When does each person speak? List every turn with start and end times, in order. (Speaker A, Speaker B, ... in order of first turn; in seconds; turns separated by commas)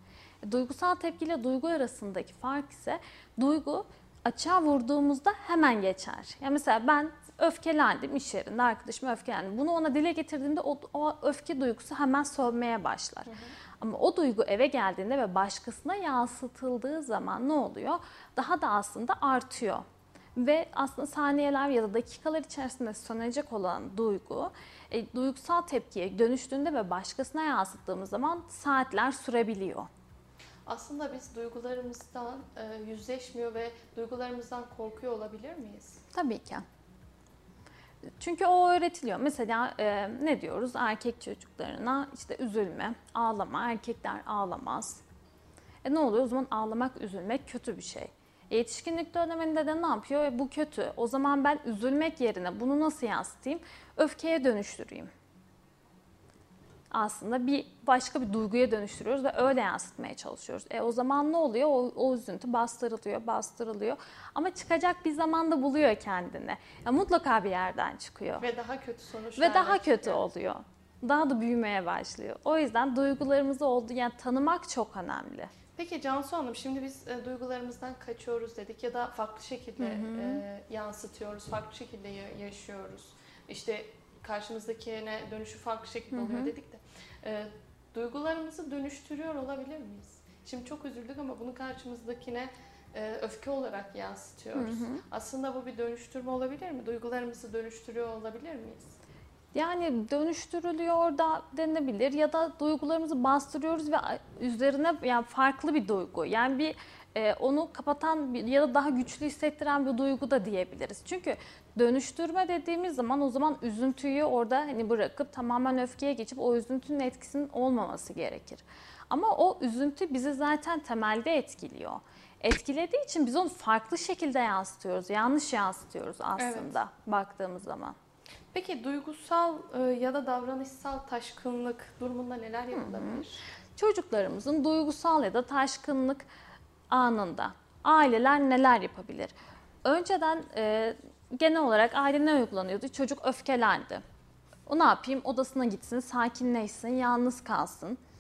Speaker A: 0.4-19.9, Speaker B: 13.3-13.5, Speaker A: 20.4-29.9, Speaker B: 30.7-36.0, Speaker A: 36.1-36.6, Speaker A: 38.2-45.0, Speaker A: 45.8-55.1, Speaker A: 56.9-68.5, Speaker B: 68.4-70.2, Speaker A: 69.4-75.5, Speaker B: 75.8-99.0, Speaker A: 79.8-80.4, Speaker A: 86.1-86.5, Speaker A: 94.5-95.0, Speaker A: 99.5-128.0, Speaker B: 126.4-126.7, Speaker B: 128.5-133.4, Speaker A: 132.7-136.3, Speaker A: 136.9-144.0, Speaker A: 144.7-148.0